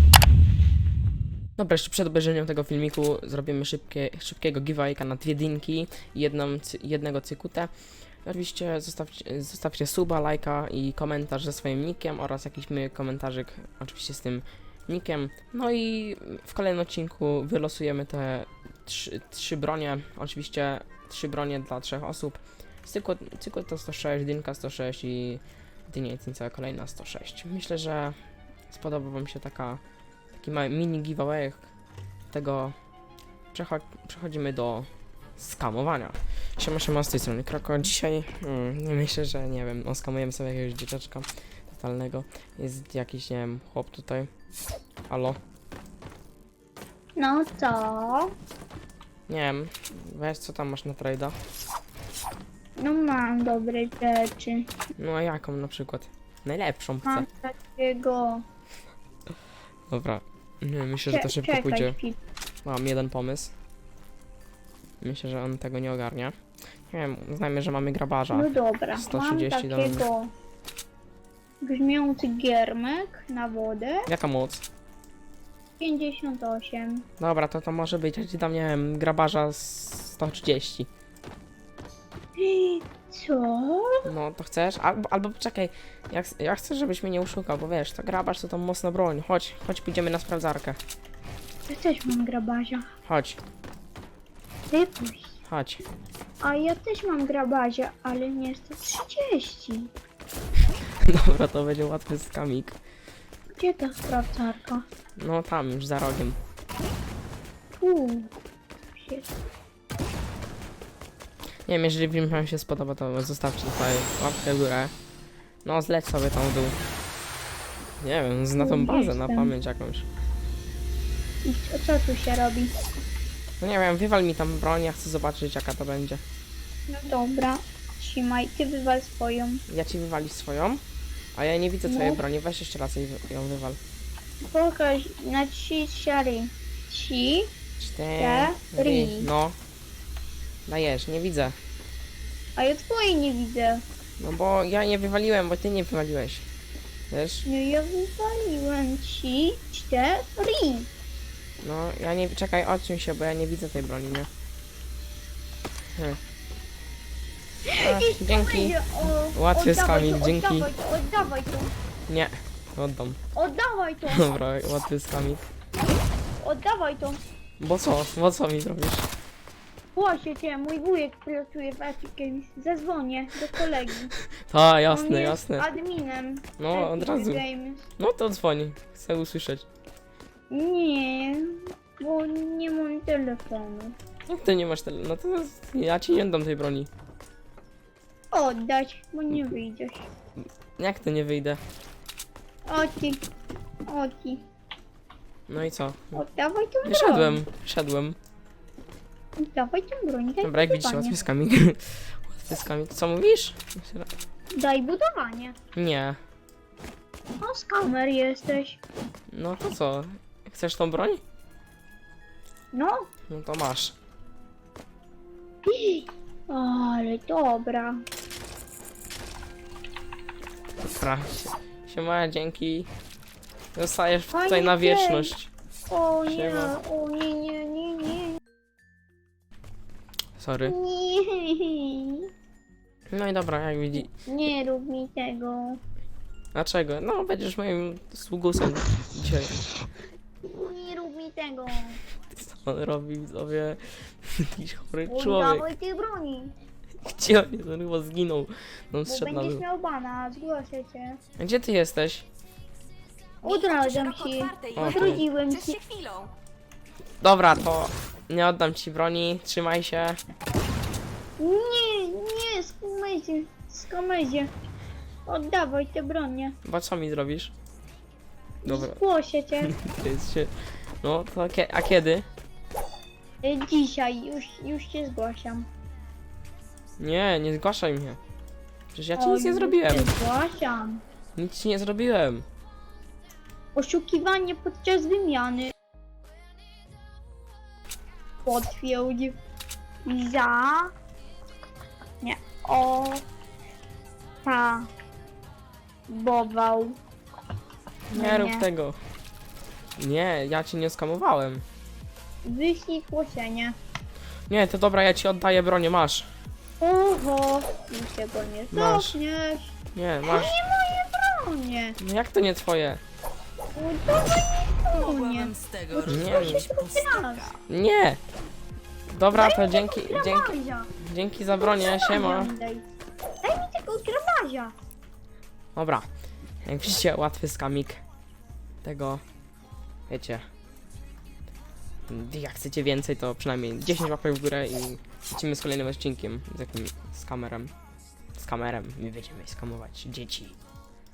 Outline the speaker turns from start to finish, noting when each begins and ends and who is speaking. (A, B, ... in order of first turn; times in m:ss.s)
0:01.6-0:07.7 A
0:08.2-0:28.2 A
0:28.7-0:29.8 A
0:30.4-0:31.7 A
0:32.3-0:32.8 A
0:33.5-0:44.3 A
0:45.1-0:45.4 A
0:47.2-0:48.3 B
0:49.3-0:51.4 A
0:52.8-0:54.7 B
0:55.0-0:57.3 A
0:57.0-0:58.4 B
0:59.9-1:02.0 A
1:01.0-1:02.2 B
1:02.6-1:03.5 A
1:05.0-1:06.4 A
1:06.9-1:10.0 A
1:08.3-1:10.3 B
1:11.6-1:14.1 B
1:14.1-1:14.6 A
1:15.8-1:17.0 B
1:17.2-1:20.9 A
1:22.4-1:24.0 B
1:24.0-1:30.8 A
1:31.7-1:32.9 B
1:33.0-1:33.4 A
1:34.7-1:35.4 B
1:35.5-1:35.8 A
1:36.4-1:39.9 B
1:41.0-1:42.8 A
1:43.6-1:44.9 B
1:45.2-1:46.4 A
1:47.8-1:48.4 B
1:49.0-1:49.3 B
1:51.7-1:54.9 A
1:55.6-1:56.8 A
1:58.0-2:00.1 A
1:58.6-1:59.5 B
2:01.4-2:02.7 B
2:03.6-2:06.2 A
2:06.9-2:09.6 B
2:09.7-2:10.8 A
2:11.4-2:13.8 A
2:11.9-2:12.2 B
2:14.5-2:17.5 B
2:17.8-2:19.6 A
2:18.2-2:19.3 B
2:20.7-2:21.6 A
2:22.6-2:23.8 B
2:24.2-2:26.5 A
2:27.1-2:27.5 A
2:27.4-2:30.9 B
2:31.6-2:34.3 A
2:37.7-2:41.7 B
2:37.8-2:40.7 A
2:42.1-2:43.2 A
2:43.4-2:44.3 B
2:44.1-2:45.4 A
2:46.4-2:47.2 B
2:47.6-2:49.1 A
2:50.0-2:54.1 B
2:54.5-2:55.7 A
2:54.9-2:57.9 B
2:56.6-2:57.4 A
2:58.0-2:59.7 A
3:00.5-3:04.0 B
3:04.3-3:06.9 A
3:08.3-3:10.1 B
3:10.8-3:11.6 A
3:12.7-3:13.2 B
3:13.9-3:14.4 B
3:15.5-3:16.2 A
3:16.1-3:17.4 B
3:16.8-3:18.2 A
3:19.4-3:21.2 B
3:20.4-3:24.1 A
3:24.5-3:25.6 B
3:25.8-3:26.2 A
3:27.4-3:28.8 B
3:29.3-3:31.2 A
3:32.7-3:33.1 B
3:33.3-3:34.0 A
3:35.7-3:38.0 B
3:40.8-3:42.9 A
3:43.8-3:45.5 A
3:44.3-3:45.3 B
3:45.9-3:48.4 B
3:46.3-3:46.8 A
3:50.4-3:50.8 A
3:50.6-3:52.3 B
3:53.1-3:54.1 A
3:54.0-3:55.8 B
3:56.5-3:59.6 A
4:00.5-4:02.0 B
4:02.3-4:05.7 A
4:05.1-4:06.6 B
4:07.0-4:09.6 A
4:09.1-4:11.2 B
4:11.4-4:12.3 A
4:13.4-4:16.3 C
4:13.4-4:15.8 B
4:14.8-4:15.2 A
4:17.2-4:20.2 A
4:21.4-4:24.5 B
4:25.3-4:26.6 B
4:26.6-4:27.5 A
4:28.6-4:29.8 B
4:28.7-4:29.0 A
4:29.6-4:32.3 A
4:33.4-4:35.7 B
4:37.0-4:38.2 A
4:38.9-4:40.1 A
4:39.2-4:41.0 B
4:41.4-4:42.5 A
4:43.8-4:45.7 B
4:48.4-4:49.4 B
4:50.0-4:50.9 B
4:52.2-4:53.2 B
4:54.4-4:54.9 B
4:56.1-4:57.0 B
4:58.1-4:59.0 A
4:58.1-4:58.7 B
5:00.0-5:01.6 A
5:02.4-5:03.8 B
5:04.5-5:06.3 A
5:06.8-5:12.0 B
5:08.7-5:09.2 A
5:10.0-5:10.5 A
5:12.0-5:13.0 A
5:13.8-5:17.6 B
5:14.9-5:17.6 C
5:16.0-5:16.7 A
5:17.7-5:18.2 A
5:19.1-5:22.5 A
5:19.3-5:20.9 B
5:21.6-5:22.9 B
5:23.4-5:24.8 B
5:25.8-5:26.1 A
5:26.6-5:28.0 A
5:28.8-5:29.2 A
5:30.1-5:30.5 A
5:32.1-5:37.7 A
5:38.4-5:40.6 A